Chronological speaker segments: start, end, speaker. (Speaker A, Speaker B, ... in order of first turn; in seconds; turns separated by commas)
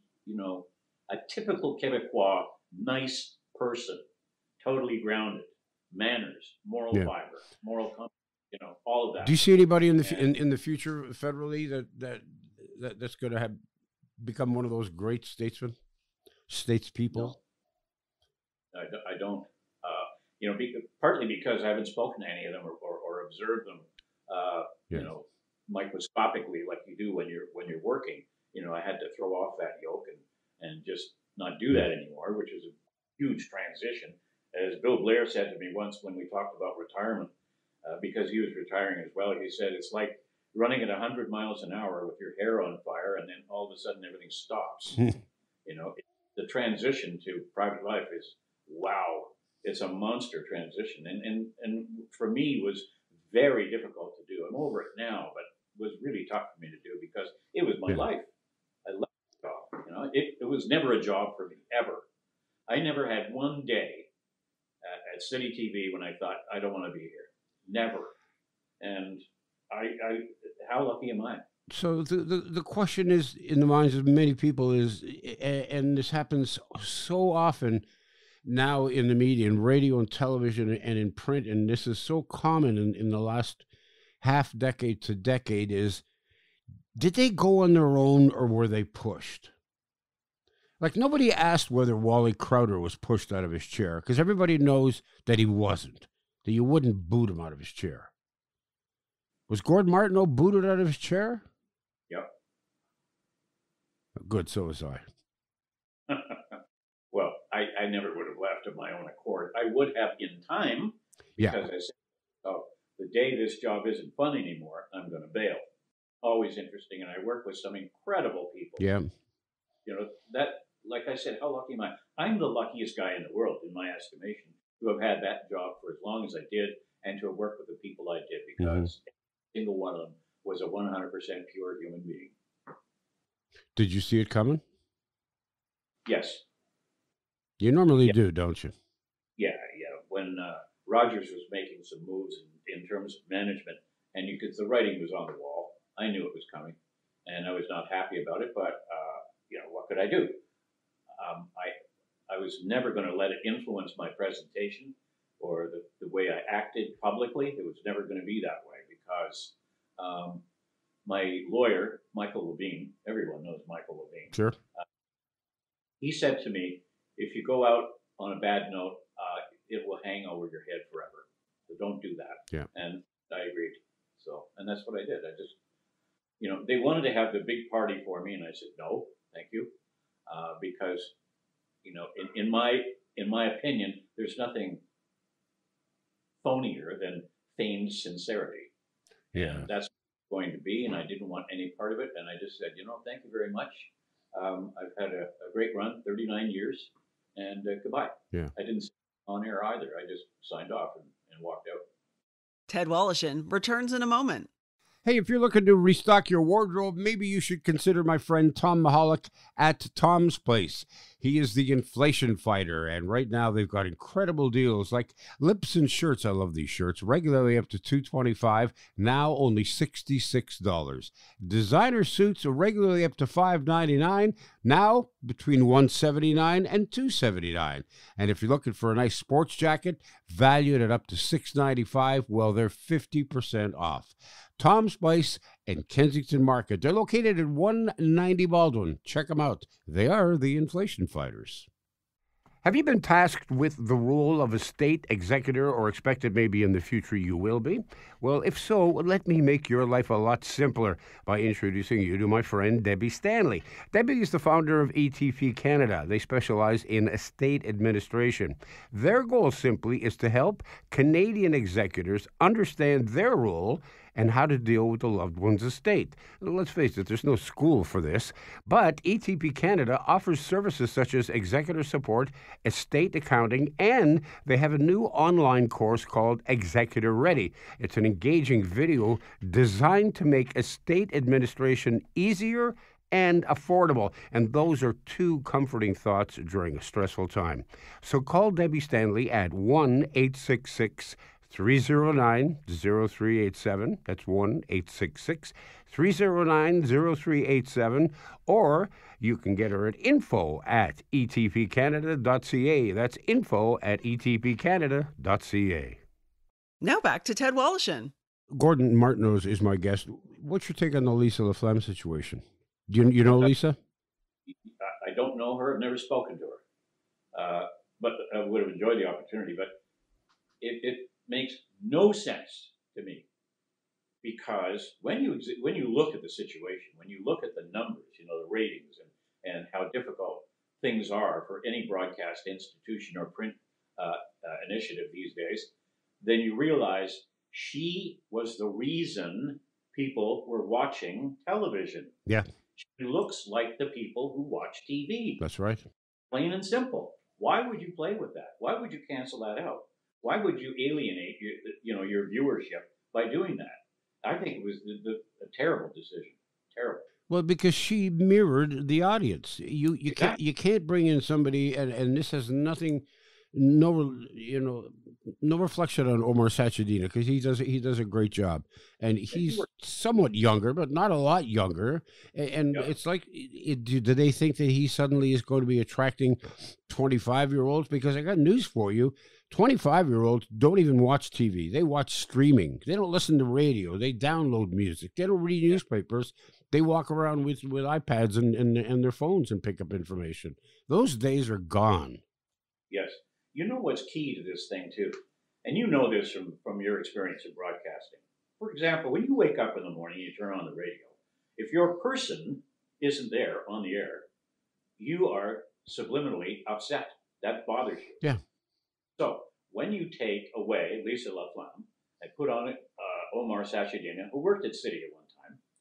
Speaker A: 0.2-4.0, Speaker A: 4.6-9.4, Speaker B: 9.2-13.6, Speaker A: 10.0-10.3, Speaker B: 14.2-15.8, Speaker B: 16.5-17.4, Speaker A: 18.7-37.3, Speaker A: 37.8-45.1, Speaker A: 45.6-58.3, Speaker A: 58.8-62.0, Speaker A: 62.7-64.1, Speaker A: 64.8-68.1, Speaker A: 68.8-71.4, Speaker B: 71.7-77.8, Speaker B: 78.4-83.6, Speaker B: 84.2-86.0, Speaker B: 86.9-89.5, Speaker B: 90.8-98.1, Speaker B: 99.5-101.5, Speaker B: 104.2-105.0, Speaker A: 106.1-106.4, Speaker A: 107.1-115.6, Speaker B: 111.4-111.7, Speaker A: 116.2-118.9, Speaker B: 118.8-119.1, Speaker A: 119.8-132.3, Speaker B: 128.6-128.9, Speaker B: 133.7-134.6, Speaker A: 136.1-136.4, Speaker B: 137.6-138.7, Speaker A: 139.4-150.4, Speaker A: 151.1-151.7, Speaker A: 152.3-160.4, Speaker A: 161.0-164.8, Speaker A: 166.0-175.5, Speaker A: 176.4-179.7, Speaker A: 180.3-181.1, Speaker A: 181.8-184.8, Speaker A: 186.4-188.7, Speaker B: 189.3-189.7, Speaker A: 189.3-201.8, Speaker C: 202.7-204.5, Speaker B: 205.0-241.7, Speaker B: 242.6-306.0, Speaker C: 306.8-308.1, Speaker B: 308.5-313.8, Speaker A: 314.5-316.6, Speaker A: 317.3-319.7, Speaker A: 320.6-323.2, Speaker A: 324.2-342.1, Speaker A: 342.8-345.4, Speaker B: 345.4-345.9, Speaker A: 346.3-357.1, Speaker B: 357.3-392.2, Speaker A: 360.1-360.4, Speaker A: 369.3-369.6, Speaker A: 392.9-404.2, Speaker A: 405.0-408.2, Speaker A: 409.2-415.6